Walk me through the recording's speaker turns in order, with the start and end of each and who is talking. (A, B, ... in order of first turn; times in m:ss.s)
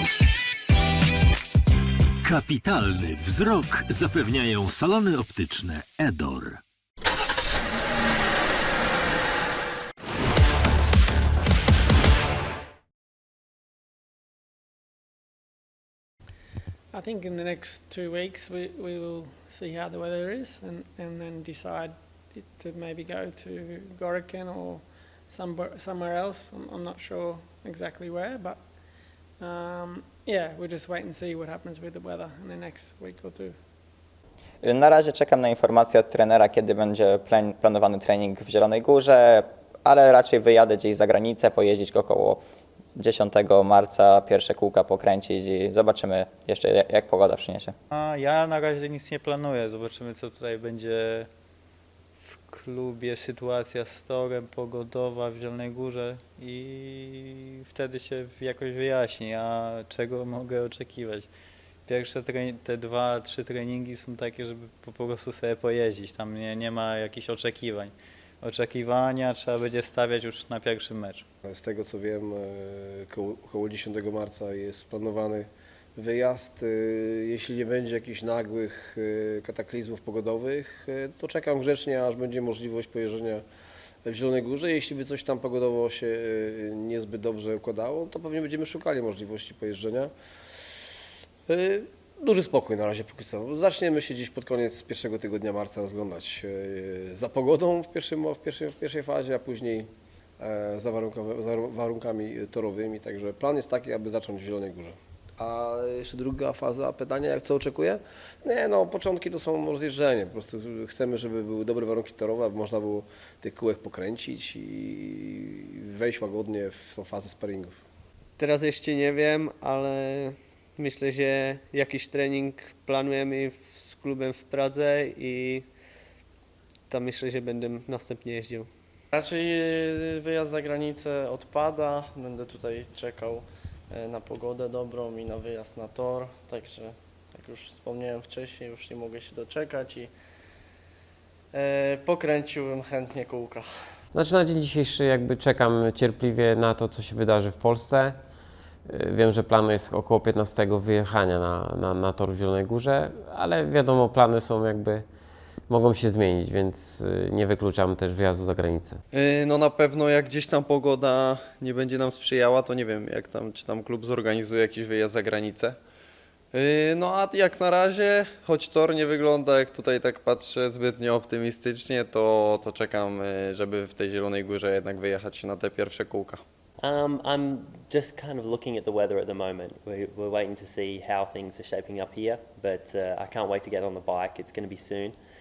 0:02.2-0:06.6 A
0:16.9-0:33.6 B
0:34.6-0:42.4 C
0:43.0-0:47.8 C
0:47.9-0:51.3 D
0:52.2-1:01.3 D
1:01.8-1:11.2 D
1:11.5-1:23.4 E
1:24.0-1:30.1 E
1:31.5-1:39.9 E
1:40.4-1:57.8 E
1:58.4-2:05.6 F
2:06.9-2:08.7 F
2:09.1-2:20.2 G
2:21.5-2:24.0 G
2:24.1-2:39.0 H
2:39.1-2:45.8 I
2:46.5-2:56.4 I
2:56.8-3:05.2 J